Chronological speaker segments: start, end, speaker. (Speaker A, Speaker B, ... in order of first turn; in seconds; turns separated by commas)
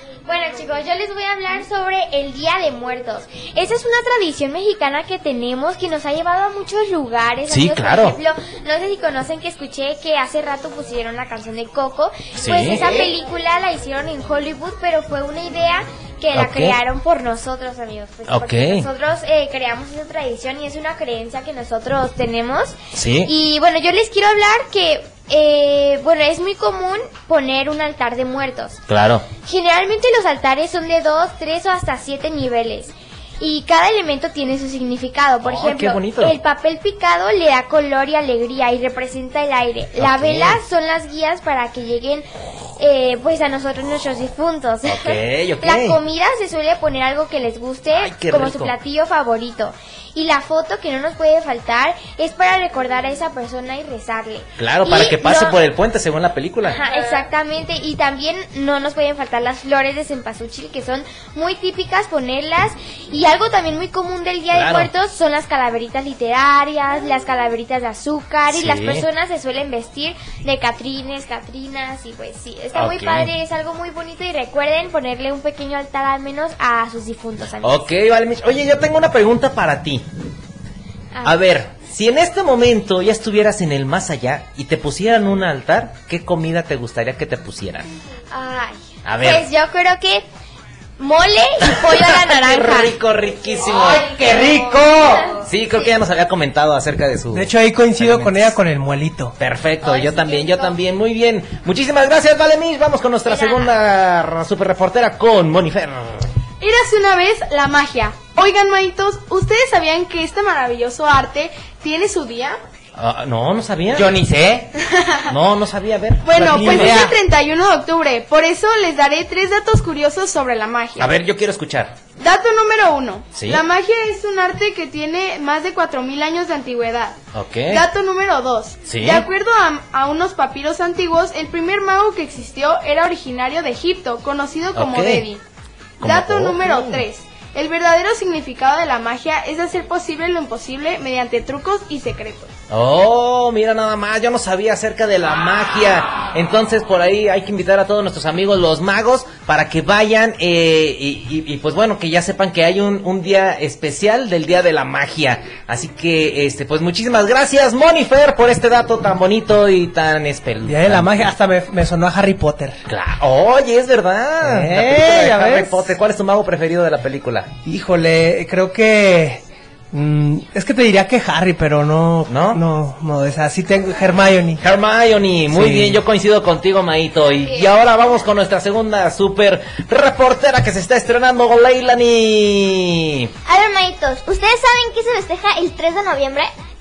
Speaker A: 0.2-28.8, Speaker B: 7.5-8.2, Speaker B: 12.4-12.9, Speaker B: 16.3-16.8, Speaker B: 18.3-18.9, Speaker B: 22.9-23.3, Speaker B: 28.9-29.2, Speaker A: 29.4-42.2, Speaker B: 35.4-36.4, Speaker B: 40.0-40.6, Speaker A: 42.8-55.5, Speaker B: 44.9-46.0, Speaker B: 47.9-48.7, Speaker B: 54.6-56.8, Speaker A: 56.7-77.8, Speaker B: 64.5-64.9, Speaker B: 68.5-69.0, Speaker B: 72.7-73.3, Speaker B: 77.6-80.0, Speaker B: 81.2-87.9, Speaker A: 88.3-90.2, Speaker B: 89.0-89.5, Speaker A: 91.0-92.9, Speaker B: 91.6-94.1, Speaker C: 93.6-95.3, Speaker B: 95.4-98.5, Speaker D: 97.3-99.3, Speaker B: 99.4-106.3, Speaker E: 106.6-112.6, Speaker B: 113.0-114.1, Speaker C: 113.9-114.7, Speaker E: 114.8-115.3, Speaker B: 115.3-117.1, Speaker E: 116.2-121.2, Speaker D: 116.4-117.0, Speaker C: 116.6-117.1, Speaker B: 121.0-121.9, Speaker E: 122.2-127.2, Speaker B: 123.3-123.6, Speaker B: 127.3-127.8, Speaker E: 127.7-135.4, Speaker B: 128.9-129.3, Speaker B: 134.7-135.2, Speaker E: 136.0-142.5, Speaker B: 136.0-137.0, Speaker B: 142.7-161.2, Speaker D: 160.7-162.8, Speaker B: 162.9-167.5, Speaker D: 164.4-165.8, Speaker D: 167.6-174.6, Speaker B: 172.3-172.6, Speaker B: 174.6-183.3, Speaker D: 175.5-176.0, Speaker F: 183.4-186.5